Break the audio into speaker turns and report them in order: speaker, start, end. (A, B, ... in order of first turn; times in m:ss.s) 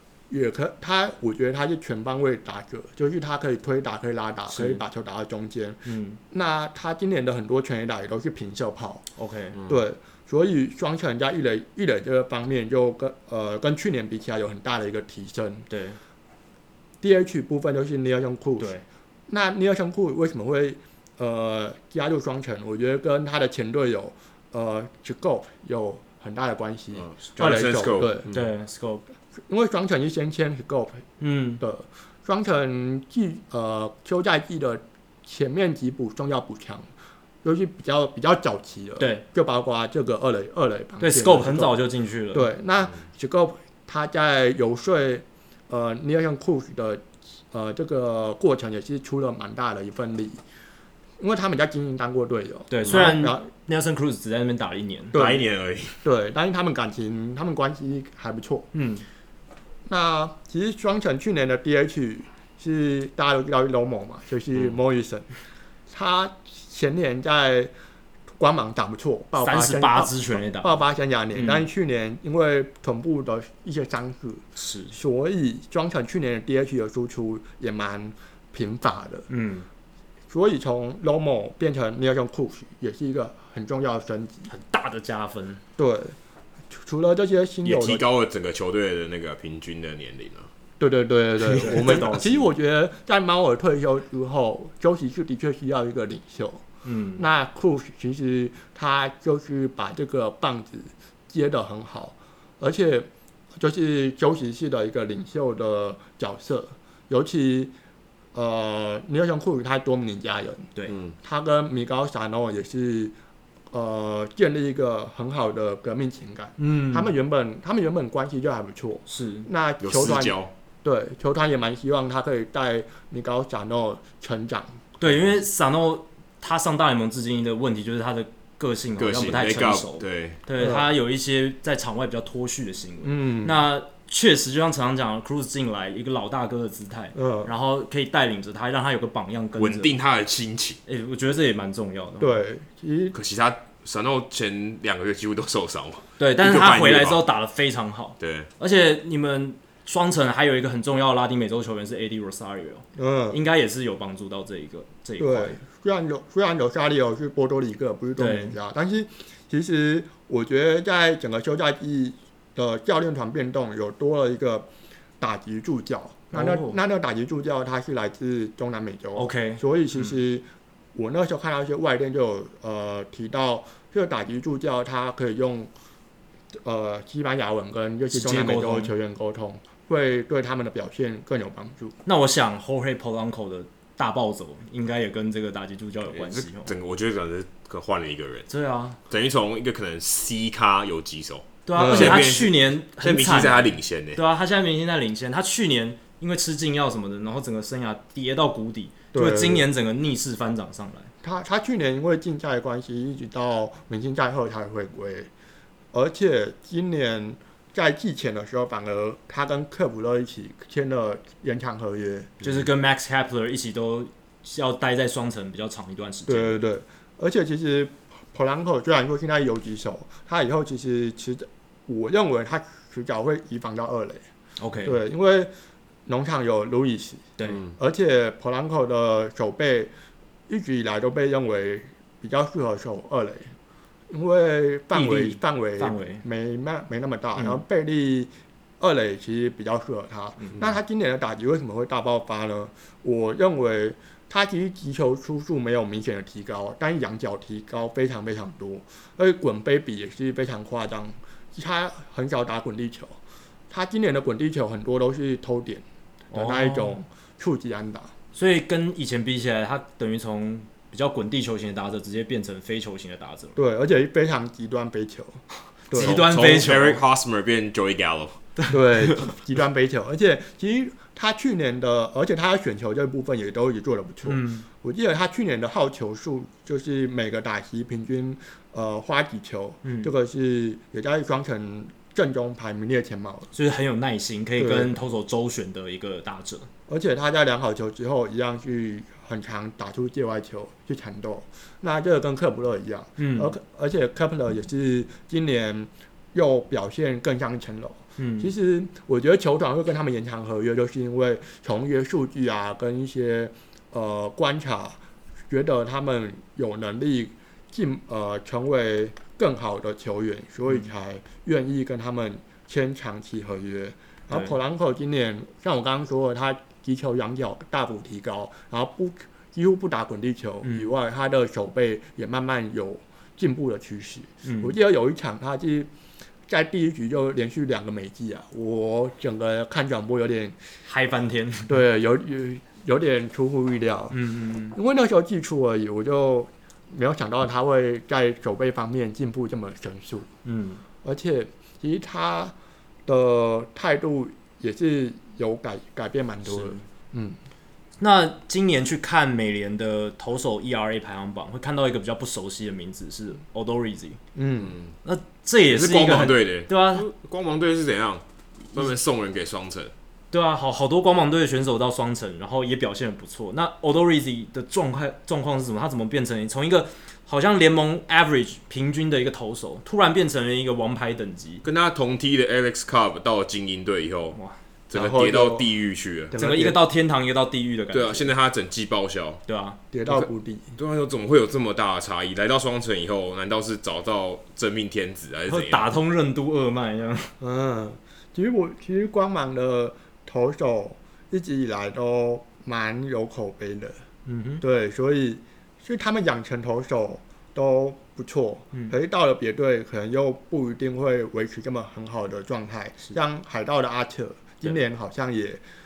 0:00.3-0:09.0 A
0:04.5-0:04.8 B
0:05.8-0:06.2 B
0:09.2-0:09.6 B
0:09.5-0:09.8 C
0:09.7-0:15.7 A
0:15.7-0:16.0 B
0:17.0-0:18.7 A
0:18.6-0:18.8 B
0:19.3-0:28.3 A
0:26.9-0:28.4 C
0:28.3-0:29.0 B
0:29.5-0:31.0 A
0:31.2-0:31.6 B
0:31.6-0:36.9 A
0:37.4-0:41.8 A
0:39.0-0:39.2 B
0:41.0-0:42.5 B
0:42.3-0:50.4 A
0:51.2-0:53.5 A
0:52.7-0:55.2 B
0:52.8-0:53.1 C
0:55.1-0:55.4 A
0:55.1-0:56.0 C
0:56.0-0:58.7 A
0:58.7-0:59.0 B
0:59.8-1:05.3 A
1:05.9-1:07.7 A
1:08.4-1:19.3 A
1:09.4-1:10.8 B
1:11.3-1:11.6 B
1:14.6-1:14.9 B
1:19.3-1:19.7 B
1:20.3-1:24.5 A
1:24.5-1:25.6 B
1:25.8-1:26.2 A
1:26.7-1:28.0 A
1:27.6-1:30.5 C
1:30.8-1:36.6 A
1:31.5-1:32.5 B
1:36.8-1:37.2 B
1:37.2-1:47.7 A
1:48.3-1:50.7 A
1:50.9-1:51.1 C
1:51.2-1:53.1 A
1:53.7-2:04.8 A
1:56.6-1:57.1 B
1:59.1-1:59.5 B
1:59.8-2:00.5 C
2:05.0-2:19.9 B
2:09.0-2:10.4 C
2:10.6-2:10.9 A
2:13.0-2:13.6 A
2:17.1-2:17.5 A
2:19.6-2:20.8 C
2:20.8-2:22.4 B
2:22.2-2:23.2 A
2:23.1-2:27.3 C
2:26.2-2:35.6 B
2:28.2-2:28.5 C
2:33.0-2:33.4 A
2:35.2-2:44.7 A
2:38.2-2:38.6 B
2:45.2-2:55.7 A
2:46.3-2:46.8 B
2:49.1-2:49.6 B
2:56.5-3:02.0 A
2:58.1-2:58.9 B
3:02.0-3:06.7 B
3:06.1-3:08.5 C
3:08.5-3:09.0 B
3:09.1-3:14.2 C
3:11.6-3:21.1 B
3:11.8-3:12.2 A
3:19.1-3:19.7 A
3:21.2-3:25.3 A
3:25.9-3:32.3 A
3:32.4-3:36.5 B
3:36.3-3:44.2 A
3:44.6-3:45.0 B
3:44.8-3:45.5 A
3:46.0-3:49.9 A
3:47.4-3:47.6 B
3:47.5-3:47.7 C
3:50.5-3:53.5 A
3:54.1-4:13.2 A
3:54.9-3:56.2 B
3:57.3-3:57.6 B
4:13.7-4:18.1 A
4:16.3-4:17.0 B
4:18.3-4:23.6 B
4:23.6-4:26.2 A
4:25.9-4:27.0 B
4:25.9-4:28.4 C
4:28.7-4:43.5 A
4:34.2-4:34.6 B
4:39.8-4:40.1 B
4:43.5-4:46.7 B
4:44.6-4:44.9 A
4:46.9-5:05.0 A
4:53.2-4:53.5 B
4:58.2-4:58.5 B
5:05.5-5:25.9 A
5:20.6-5:20.9 B
5:24.4-5:24.8 B
5:26.5-5:30.6 A
5:30.9-5:31.7 B
5:31.7-5:34.2 A
5:34.1-5:34.8 B
5:34.7-5:40.3 A
5:40.4-5:40.8 B
5:41.0-5:42.5 A
5:43.1-5:47.4 A
5:46.5-5:46.8 B
5:48.0-5:54.2 B
5:54.3-5:54.8 A
5:54.6-5:54.9 C
5:55.0-5:57.1 B
5:55.7-5:59.9 C
6:00.3-6:11.6 B
6:11.6-6:14.4 C
6:14.9-6:16.3 C
6:14.9-6:15.7 A
6:16.3-6:16.8 A
6:16.4-6:18.3 B
6:17.9-6:19.4 C
6:19.5-6:19.8 B
6:19.9-6:20.7 A
6:20.1-6:25.9 C
6:25.5-6:27.3 B
6:27.4-6:34.0 A
6:34.2-6:34.6 B
6:34.6-6:45.6 A